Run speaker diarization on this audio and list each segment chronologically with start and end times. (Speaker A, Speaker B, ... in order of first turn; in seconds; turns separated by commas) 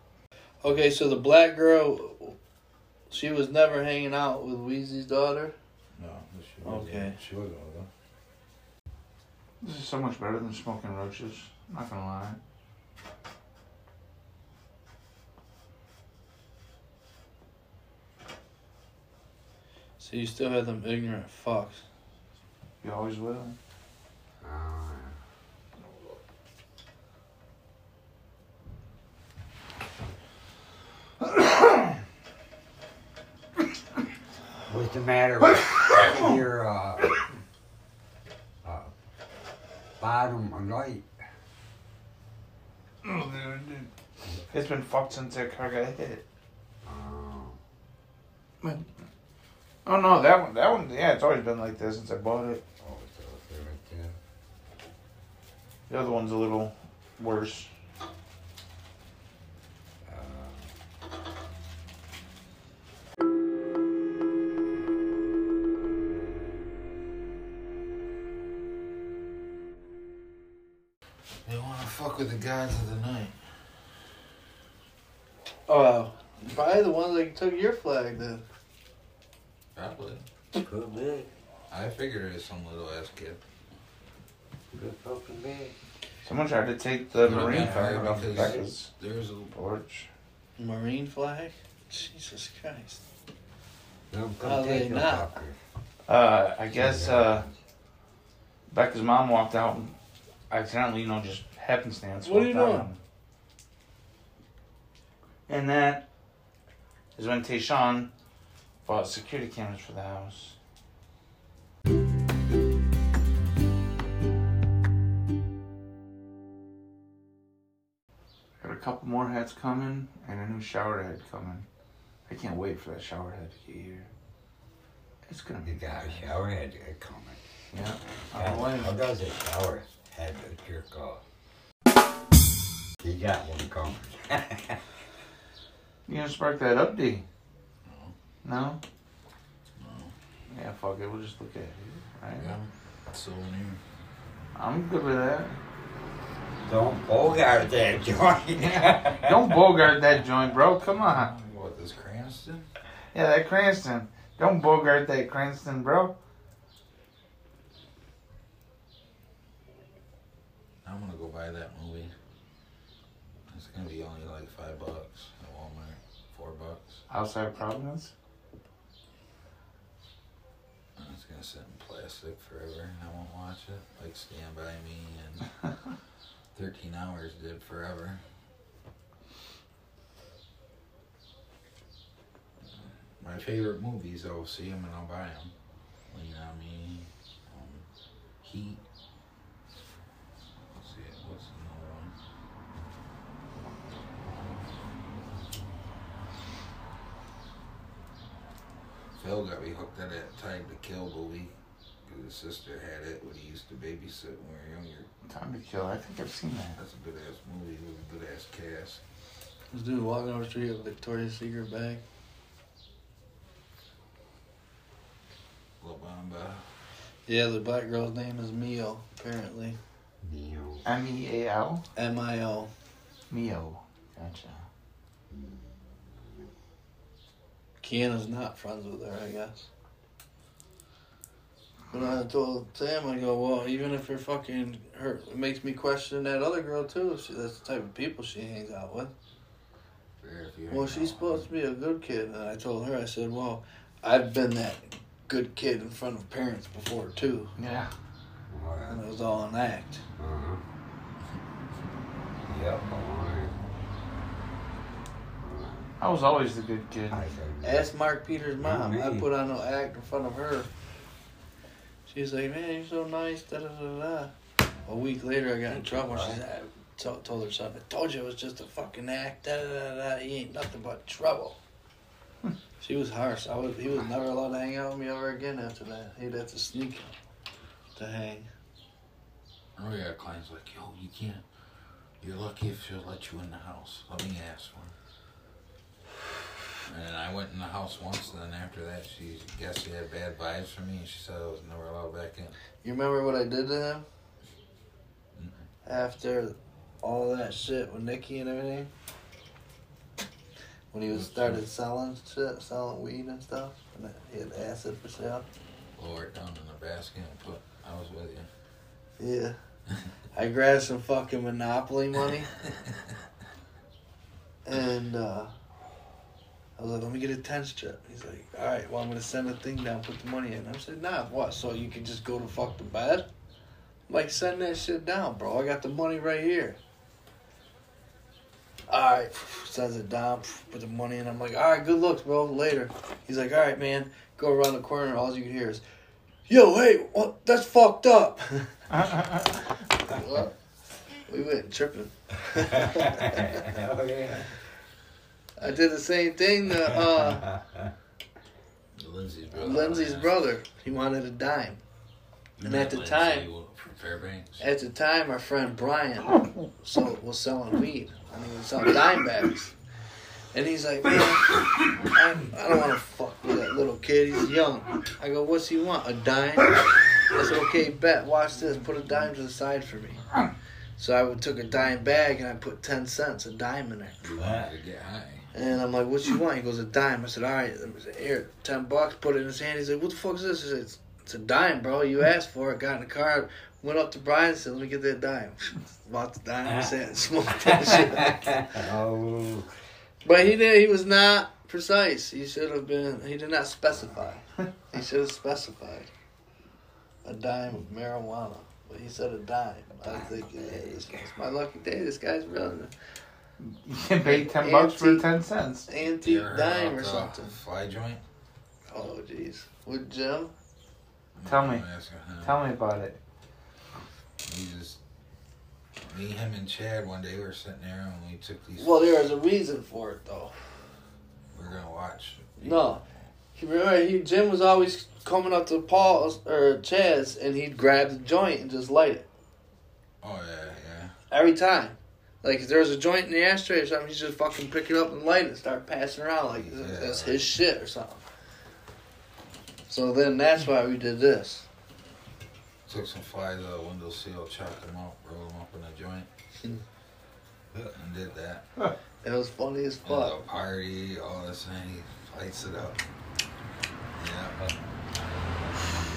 Speaker A: 0.6-2.4, Speaker A: 3.1-5.5, Speaker B: 6.0-7.9, Speaker A: 6.6-7.2, Speaker C: 9.6-12.4, Speaker A: 20.0-21.8, Speaker C: 22.8-23.6, Speaker D: 24.4-25.2, Speaker D: 34.7-37.1, Speaker C: 36.0-36.3, Speaker D: 38.6-38.9, Speaker D: 40.0-41.1, Speaker C: 43.0-43.9, Speaker C: 44.5-46.2, Speaker D: 46.8-47.6, Speaker C: 48.6-48.9, Speaker C: 49.9-52.6, Speaker D: 52.8-54.2, Speaker C: 55.9-57.7, Speaker D: 60.0-60.7, Speaker B: 71.5-73.4, Speaker A: 75.7-78.4, Speaker B: 79.8-80.2, Speaker D: 80.5-81.3, Speaker B: 81.7-83.4, Speaker D: 84.7-85.8, Speaker C: 86.2-88.9, Speaker B: 87.2-89.6, Speaker D: 87.5-88.7, Speaker C: 89.5-90.1, Speaker A: 90.6-93.0, Speaker D: 94.1-95.6, Speaker A: 94.4-95.3, Speaker C: 96.1-97.5, Speaker D: 96.8-97.5, Speaker C: 98.7-100.0, Speaker C: 100.5-103.0, Speaker A: 102.2-102.9, Speaker C: 105.5-106.0, Speaker C: 107.2-108.1, Speaker C: 108.8-110.6, Speaker C: 118.6-121.7, Speaker C: 122.3-124.1, Speaker C: 125.3-126.2, Speaker D: 125.6-127.4, Speaker C: 127.7-128.9, Speaker D: 128.3-131.2, Speaker D: 133.0-134.8, Speaker C: 136.1-137.2, Speaker B: 137.8-138.1, Speaker C: 138.4-138.8, Speaker B: 139.8-140.1, Speaker C: 140.5-142.6, Speaker B: 142.4-143.8, Speaker C: 144.6-145.6, Speaker D: 146.7-149.6, Speaker C: 148.6-151.3, Speaker B: 151.0-152.7, Speaker C: 153.1-156.1, Speaker B: 160.8-162.1, Speaker B: 163.5-167.0, Speaker C: 167.1-168.1, Speaker B: 171.0-175.5, Speaker B: 176.5-178.2, Speaker B: 182.6-185.5, Speaker B: 186.1-187.8, Speaker B: 188.4-188.8, Speaker B: 190.8-192.2, Speaker B: 199.2-201.5, Speaker B: 202.1-205.1, Speaker C: 205.3-206.8, Speaker B: 206.8-209.0, Speaker A: 209.7-212.0, Speaker B: 215.8-216.7, Speaker A: 217.3-219.8, Speaker D: 220.2-220.8, Speaker C: 220.8-221.8, Speaker A: 222.0-222.7, Speaker C: 223.3-224.6, Speaker D: 225.3-225.6, Speaker A: 227.8-229.7, Speaker A: 231.9-239.1, Speaker B: 240.2-241.5, Speaker A: 240.7-247.5, Speaker C: 247.6-247.9, Speaker D: 248.5-249.0, Speaker A: 248.9-250.0, Speaker D: 250.2-250.6, Speaker D: 252.4-253.6, Speaker D: 255.4-255.9, Speaker C: 256.0-257.2, Speaker D: 257.1-257.9, Speaker A: 257.6-260.7, Speaker D: 258.6-259.3, Speaker A: 262.1-264.3, Speaker A: 264.9-271.6, Speaker D: 265.7-266.4, Speaker A: 272.8-277.1, Speaker A: 278.0-278.5, Speaker B: 279.8-281.4, Speaker B: 282.2-284.9, Speaker B: 286.9-292.5, Speaker A: 292.8-294.1, Speaker B: 295.4-295.6, Speaker A: 295.9-298.9, Speaker A: 300.9-305.4, Speaker B: 301.1-301.6, Speaker B: 306.0-308.5, Speaker A: 309.2-309.6, Speaker A: 310.3-312.5, Speaker A: 314.7-315.5, Speaker A: 316.8-323.3, Speaker A: 324.1-326.8, Speaker A: 328.9-335.8, Speaker A: 336.5-338.7, Speaker C: 338.9-339.5, Speaker A: 340.1-340.5, Speaker A: 341.3-343.6, Speaker D: 342.5-344.6, Speaker A: 345.6-347.5, Speaker D: 346.8-347.9, Speaker B: 349.0-350.4, Speaker A: 349.5-351.8, Speaker B: 352.6-354.6, Speaker A: 352.6-353.5, Speaker A: 354.6-359.7, Speaker A: 360.5-366.8, Speaker A: 367.3-370.2, Speaker A: 371.0-374.3, Speaker B: 374.2-375.5, Speaker D: 374.3-374.7, Speaker A: 375.5-388.6, Speaker D: 386.6-386.9, Speaker D: 387.5-389.7, Speaker A: 390.2-396.1, Speaker A: 397.2-402.9, Speaker D: 400.0-401.3, Speaker C: 403.6-405.9, Speaker A: 404.2-405.2, Speaker A: 405.9-407.6, Speaker B: 406.0-408.2, Speaker A: 408.9-410.5, Speaker B: 411.4-412.6, Speaker C: 411.4-411.9, Speaker C: 412.4-413.2, Speaker B: 414.4-415.0, Speaker B: 416.1-419.0, Speaker A: 418.8-420.6, Speaker B: 421.5-423.3, Speaker A: 422.6-423.0, Speaker A: 423.6-429.3, Speaker B: 430.2-431.1, Speaker A: 431.3-438.3, Speaker B: 436.5-437.6, Speaker A: 439.9-441.7, Speaker B: 442.9-446.3, Speaker B: 447.9-448.7, Speaker A: 449.2-450.4, Speaker B: 450.1-453.0, Speaker B: 454.2-454.6